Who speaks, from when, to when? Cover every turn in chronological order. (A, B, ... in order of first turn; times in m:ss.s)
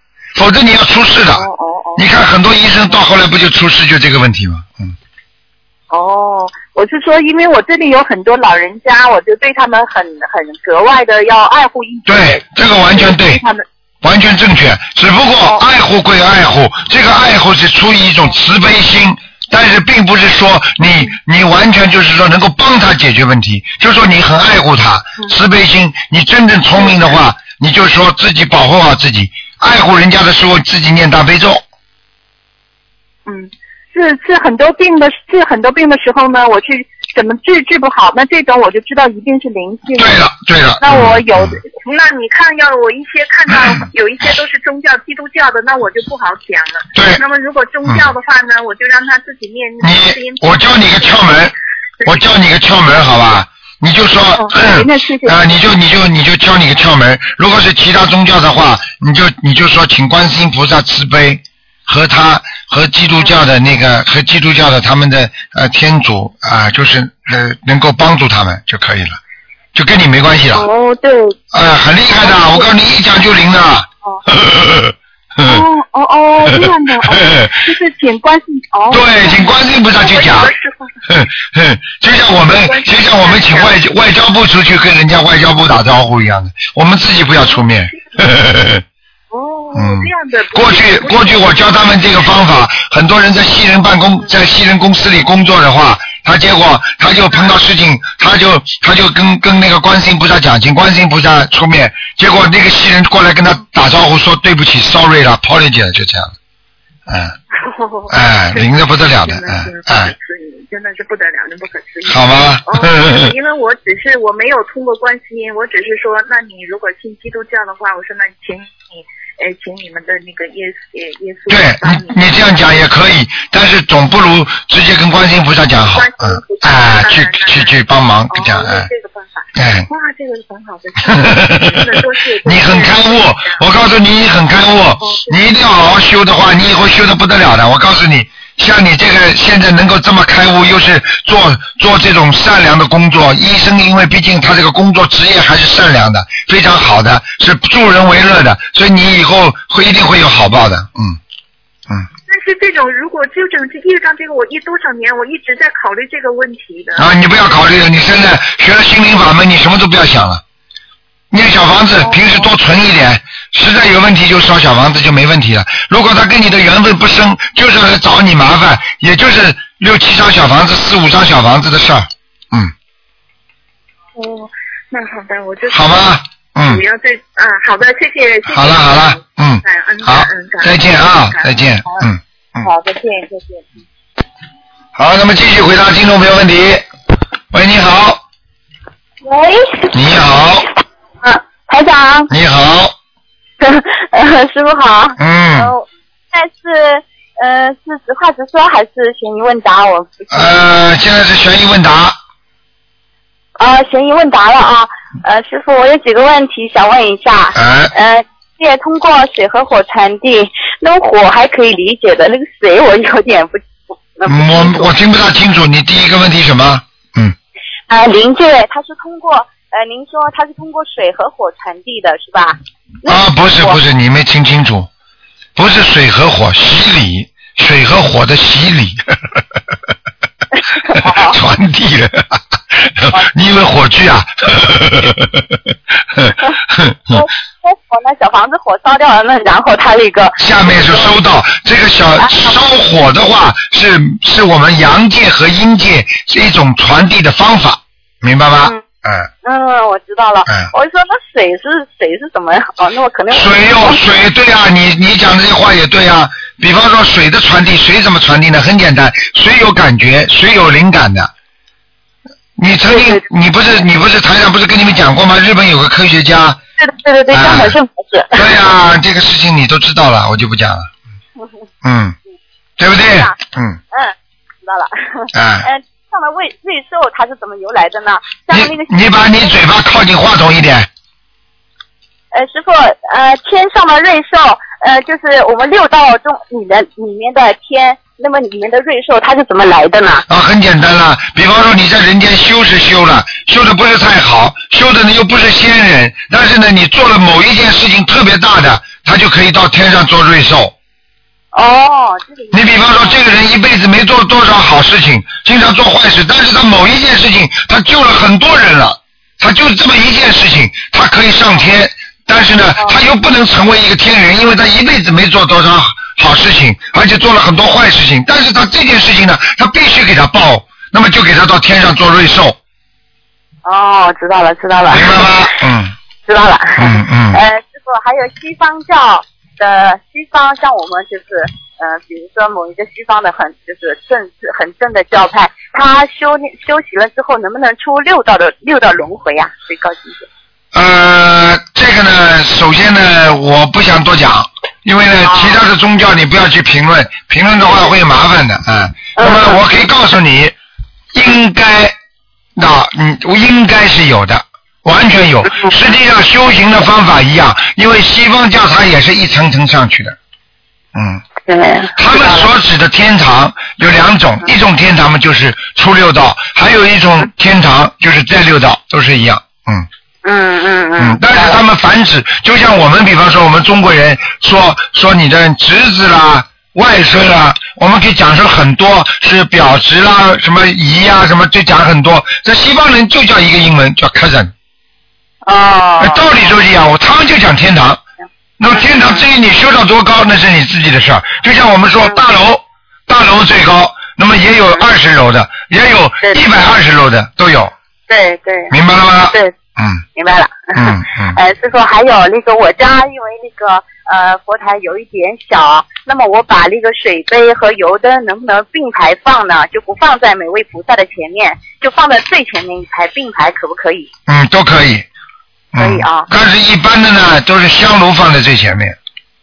0:00.3-0:04.9 A
0:01.3-0:02.0 B
0:05.9-0:13.6 B
0:12.1-0:13.4 A
0:14.0-0:31.6 A
0:26.8-0:27.2 B
0:33.2-0:40.2 B
0:40.0-0:41.6 A
0:40.8-0:51.4 B
0:43.5-0:43.8 A
0:46.9-0:47.2 A
0:49.8-0:51.5 A
0:52.0-1:09.2 A
0:54.4-0:55.6 B
1:09.7-1:10.7 A
1:10.5-1:11.4 B
1:11.5-1:15.6 A
1:12.2-1:12.7 B
1:15.4-1:21.0 B
1:16.4-1:17.6 A
1:18.9-1:20.5 A
1:21.1-1:28.8 A
1:22.3-1:23.8 B
1:27.4-1:28.0 B
1:29.3-1:32.3 B
1:29.7-1:46.3 A
1:47.1-1:47.4 A
1:47.5-2:02.2 B
1:48.1-1:50.1 A
1:52.0-1:53.3 A
2:01.5-2:08.9 A
2:05.8-2:13.6 B
2:09.5-2:09.9 A
2:11.0-2:31.2 A
2:15.0-2:15.4 B
2:32.3-2:37.6 B
2:37.0-2:40.4 A
2:41.3-2:52.7 A
2:42.0-2:42.5 B
2:54.2-3:03.7 B
2:55.7-2:56.8 A
2:58.5-3:02.7 A
3:04.9-3:06.8 A
3:07.5-3:08.2 A
3:09.2-3:09.9 C
3:09.9-3:10.6 A
3:11.2-3:12.3 C
3:12.3-3:12.9 A
3:13.6-3:20.5 C
3:15.2-3:15.7 A
3:20.3-3:22.2 A
3:23.6-3:34.9 C
3:27.5-3:27.9 A
3:34.2-3:37.3 A
3:37.9-3:43.8 C
3:43.0-3:44.9 A
3:45.6-3:49.4 A
3:50.8-3:51.4 C
3:51.0-3:55.4 A
3:56.1-3:57.3 A
3:57.1-4:01.1 C
4:00.4-4:09.3 A
4:02.2-4:02.6 C
4:09.4-4:14.0 C
4:13.3-4:21.3 A
4:22.6-4:26.6 A
4:22.9-4:23.2 C
4:26.8-4:28.5 C
4:27.3-4:27.7 A
4:28.3-4:30.9 A
4:31.8-4:32.2 A
4:32.8-4:33.8 A
4:33.0-4:33.3 C
4:33.9-4:39.6 C
4:35.3-4:35.7 A
4:38.5-4:40.9 A
4:42.3-4:50.2 C
4:50.3-5:00.7 A
5:01.5-5:03.2 C
5:02.5-5:22.6 A
5:23.6-5:25.3 C
5:24.9-5:25.9 A
5:26.2-5:40.3 C
5:26.8-5:27.4 A
5:40.7-5:50.5 A
5:45.2-5:45.6 C
5:49.2-5:49.8 C
5:51.1-5:51.9 A
5:52.6-6:00.2 A
6:00.9-6:01.2 A
6:01.4-6:02.5 C
6:02.0-6:09.9 A
6:10.2-6:11.6 C
6:11.0-6:24.5 A
6:25.4-6:26.4 C
6:26.0-6:28.0 A
6:28.6-6:37.7 A
6:28.7-6:29.2 C
6:38.1-6:38.7 C
6:38.7-6:40.0 A
6:40.1-6:54.1 C
6:40.8-6:41.4 A
6:54.3-6:55.0 A
6:55.7-6:59.0 A
6:55.8-6:56.3 C